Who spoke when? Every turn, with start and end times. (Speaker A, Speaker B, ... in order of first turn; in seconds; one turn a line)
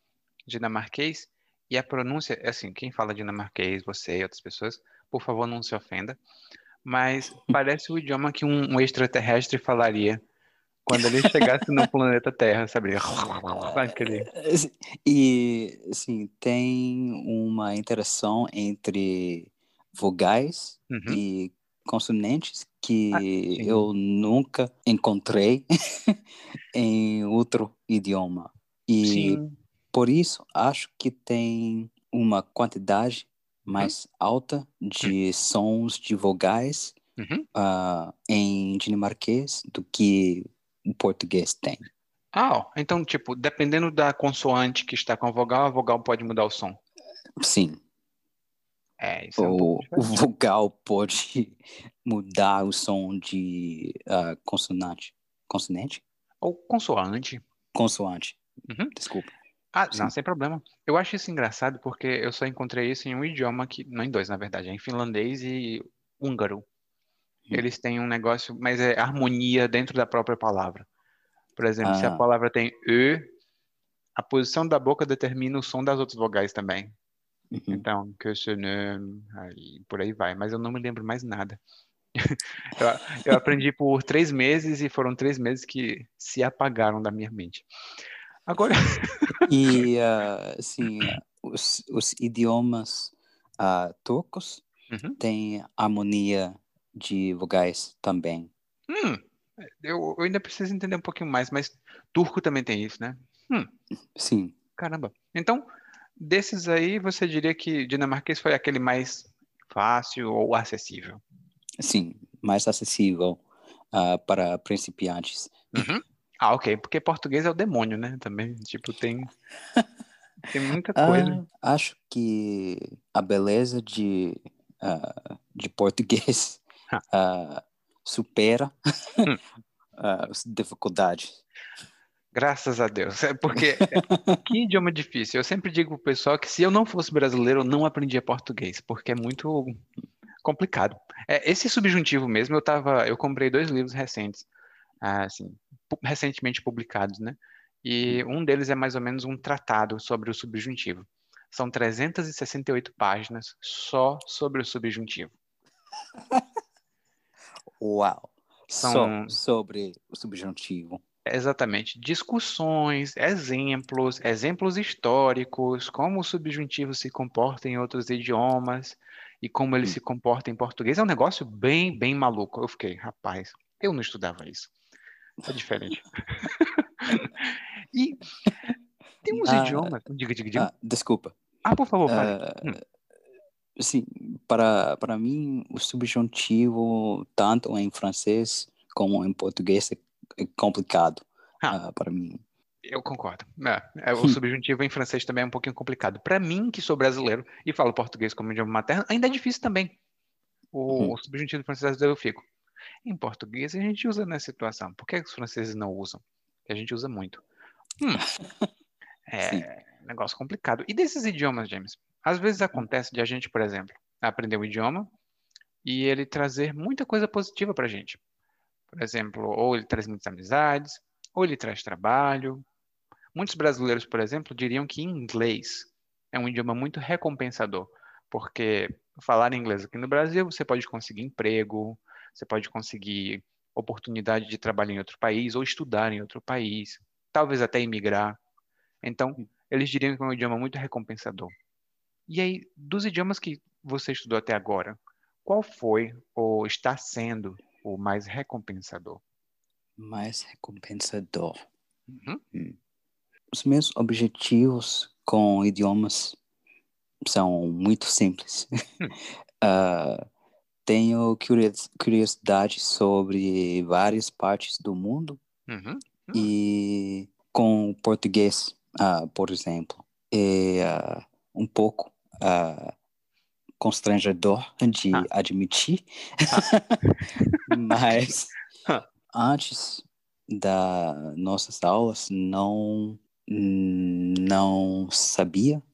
Speaker A: 0.5-6.2
Speaker A: 6.8-10.2
Speaker A: 10.8-14.3
Speaker B: 10.9-11.5
Speaker B: 13.9-26.2
Speaker A: 20.9-21.2
Speaker A: 23.1-23.9
Speaker B: 26.7-29.4
Speaker A: 29.0-29.6
Speaker B: 29.9-37.0
Speaker A: 37.2-37.5
Speaker B: 37.5-41.9
Speaker A: 42.3-46.8
Speaker B: 47.4-47.8
Speaker A: 49.0-50.1
Speaker B: 49.4-56.0
Speaker A: 56.4-57.4
Speaker B: 57.7-58.4
Speaker B: 58.9-59.3
Speaker A: 59.7-66.6
Speaker A: 67.5-70.9
Speaker A: 71.5-73.3
Speaker B: 71.8-72.2
Speaker A: 74.2-76.9
Speaker B: 77.5-77.8
Speaker A: 77.7-81.6
Speaker A: 82.2-87.7
Speaker A: 88.5-89.8
Speaker B: 89.5-94.6
Speaker A: 94.9-95.2
Speaker B: 95.2-98.5
Speaker A: 98.9-103.7
Speaker B: 104.1-104.5
Speaker A: 104.8-105.6
Speaker A: 106.2-111.2
Speaker B: 111.8-115.8
Speaker A: 115.7-119.3
Speaker A: 120.5-121.4
Speaker B: 121.0-129.2
Speaker B: 130.0-131.4
Speaker A: 132.3-139.8
Speaker B: 133.5-134.4
Speaker A: 140.4-144.5
Speaker A: 145.0-155.3
Speaker B: 157.8-161.0
Speaker A: 158.8-159.3
Speaker A: 161.2-174.7
Speaker A: 175.4-178.2
Speaker A: 179.2-180.7
Speaker B: 179.3-180.0
Speaker B: 180.5-181.3
Speaker A: 181.6-182.8
Speaker B: 182.1-182.8
Speaker B: 183.8-192.4
Speaker A: 192.8-199.9
Speaker A: 200.7-202.5
Speaker B: 200.9-201.1
Speaker A: 203.0-207.4
Speaker B: 208.4-208.7
Speaker A: 209.3-215.1
Speaker A: 215.8-218.2
Speaker A: 218.9-222.6
Speaker A: 223.3-238.4
Speaker A: 239.0-241.5
Speaker A: 242.3-249.2
Speaker B: 250.0-251.6
Speaker A: 252.1-252.4
Speaker B: 253.5-256.4
Speaker B: 257.2-258.7
Speaker B: 259.6-260.2
Speaker B: 260.9-265.4
Speaker A: 265.7-266.5
Speaker B: 266.3-272.9
Speaker B: 273.8-277.0
Speaker A: 276.5-277.8
Speaker B: 277.7-278.5
Speaker B: 279.3-285.8